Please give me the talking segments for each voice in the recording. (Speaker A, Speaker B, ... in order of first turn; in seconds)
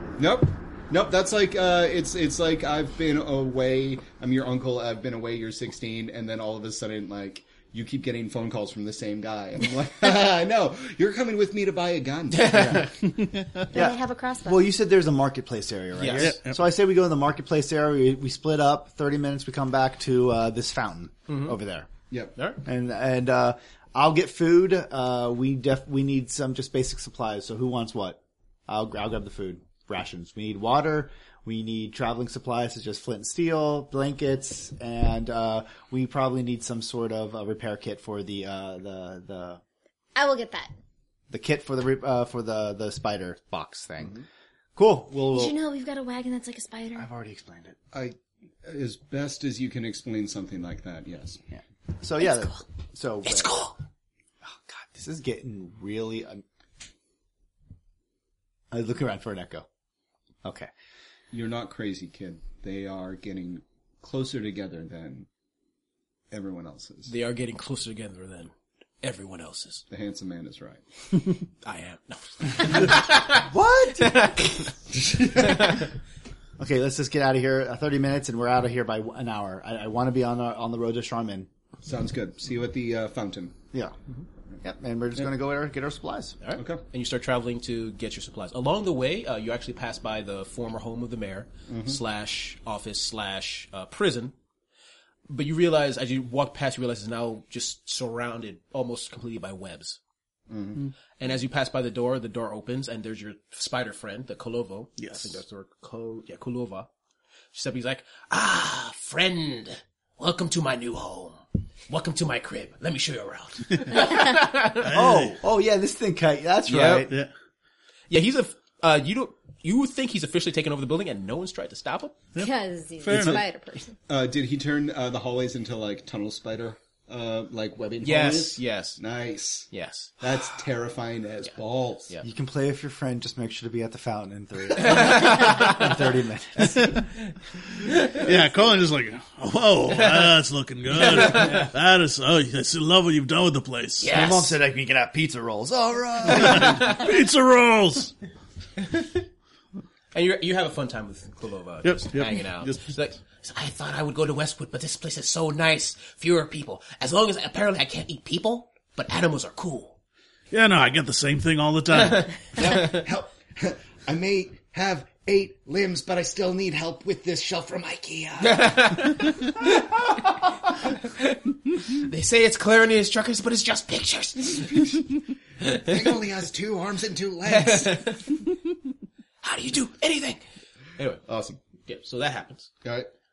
Speaker A: 0.2-12.9, 47.9-51.4, 61.3-65.3, 66.3-67.1, 69.9-70.8, 75.1-75.6, 81.8-83.6, 86.6-86.8, 91.7-92.0, 100.5-100.9, 124.1-132.1, 162.6-169.1, 175.6-178.0, 181.3-181.6, 182.8-183.1
Speaker B: 12.3-12.9, 15.9-16.4, 21.3-21.6, 22.4-22.6, 53.2-53.8, 67.1-69.8, 71.6-74.7, 86.4-94.3, 95.3-100.0, 101.2-106.9, 107.5-114.9, 116.7-117.1, 118.1-122.2, 128.0-129.0, 129.7-130.2, 134.8-135.9, 139.9-140.4, 140.9-141.7, 144.0-144.6, 146.6-147.0, 148.8-149.2, 150.1-160.0, 168.4-175.1, 175.6-176.0, 177.5-178.5, 179.4-180.4, 181.0-181.2, 181.8-182.7
Speaker C: 12.4-12.9, 13.7-21.9, 22.6-39.6, 41.3-44.2, 44.8-45.6, 47.0-47.8, 51.5-53.6, 54.4-56.4, 58.7-59.7, 60.4-60.7, 73.3-74.3, 76.6-81.5, 84.6-86.4, 114.9-117.1, 132.2-137.1, 144.1-146.8
Speaker D: 13.7-14.7, 40.1-40.7, 45.3-47.1, 122.4-124.0
Speaker E: 16.2-16.6, 105.0-105.4, 114.8-115.4, 123.0-123.4, 138.0-144.1, 146.3-148.1, 151.8-152.9, 160.5-162.5